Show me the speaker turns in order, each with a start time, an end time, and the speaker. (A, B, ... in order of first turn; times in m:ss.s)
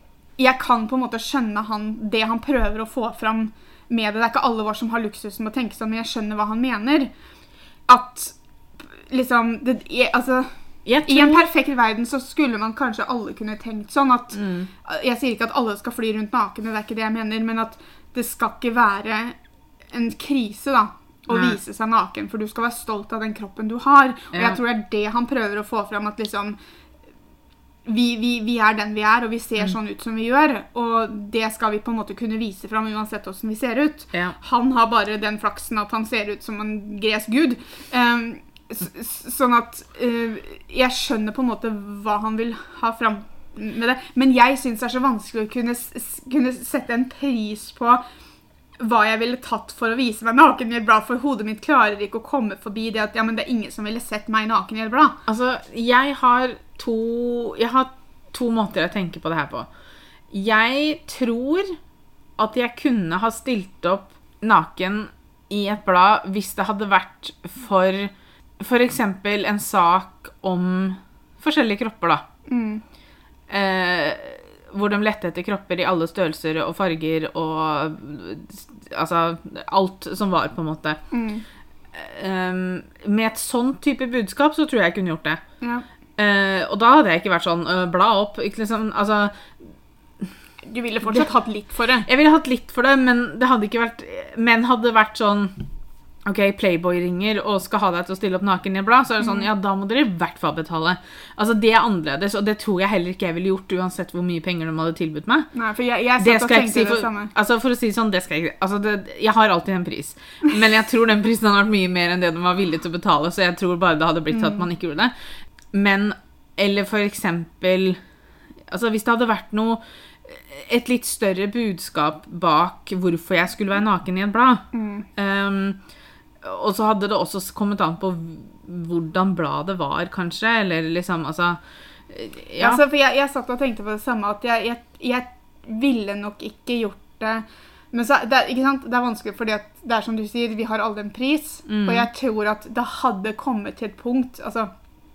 0:00.4-0:07.1 A
0:07.9-0:19.4 A
0:10.8-0:11.5 B
0:14.3-0:14.7 B
0:19.9-0:26.6 A
0:21.3-0:21.6 B
0:24.3-0:24.6 B
0:27.8-0:48.0 A
0:48.8-0:55.2 A
0:55.3-0:59.7 B
1:00.3-1:01.8 B
1:02.4-1:12.3 B
1:12.5-1:12.8 A
1:13.5-1:21.0 B
1:21.1-1:21.4 A
1:21.9-1:25.4 B
1:26.2-1:29.6 B
1:30.6-1:32.1 A
1:32.0-1:35.6 B
1:36.3-1:45.5 B
1:45.5-1:47.3 A
1:46.2-1:55.1 B
1:54.3-1:54.6 A
1:55.7-1:58.0 B
1:58.7-2:04.6 B
2:04.7-2:05.1 A
2:05.2-2:05.8 B
2:06.4-2:12.8 B
2:12.6-2:24.7 A
2:21.7-2:22.1 B